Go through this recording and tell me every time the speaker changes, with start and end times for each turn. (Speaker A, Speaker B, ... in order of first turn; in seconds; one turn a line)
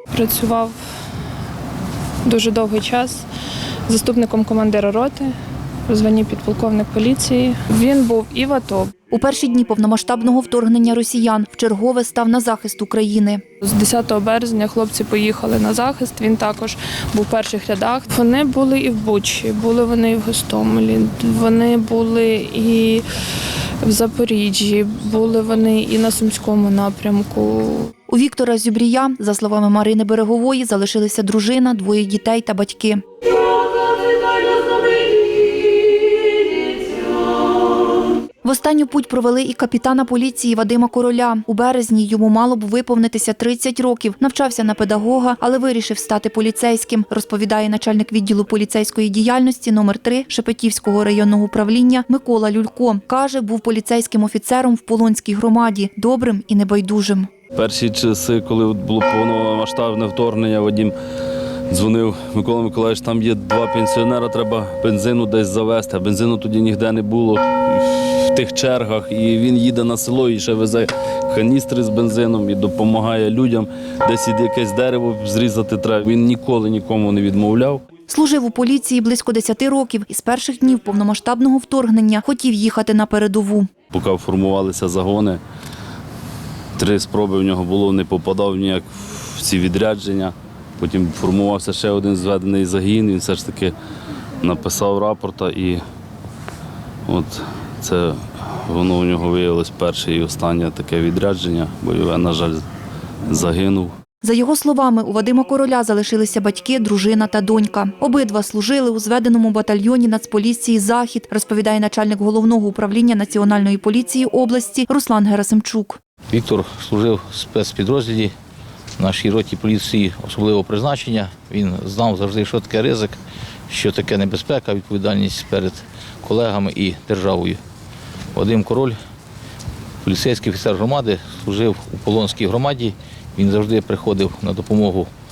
Speaker A: 0.1-0.8
Speaker A: 2.2-3.3
Speaker A: 3.9-5.3
Speaker A: 5.9-8.9
Speaker B: 9.1-13.4
Speaker A: 13.6-27.9
Speaker B: 28.1-33.0
Speaker B: 38.4-57.3
Speaker C: 57.5-60.9
Speaker C: 61.7-77.8
Speaker B: 78.1-83.7
Speaker C: 83.9-85.4
Speaker C: 86.8-93.7
Speaker C: 94.4-95.8
Speaker C: 97.1-102.6
Speaker C: 103.3-103.9
Speaker B: 104.2-116.0
Speaker D: 116.3-118.3
Speaker D: 119.0-123.2
Speaker D: 123.7-127.6
Speaker D: 128.3-129.0
Speaker D: 130.0-135.1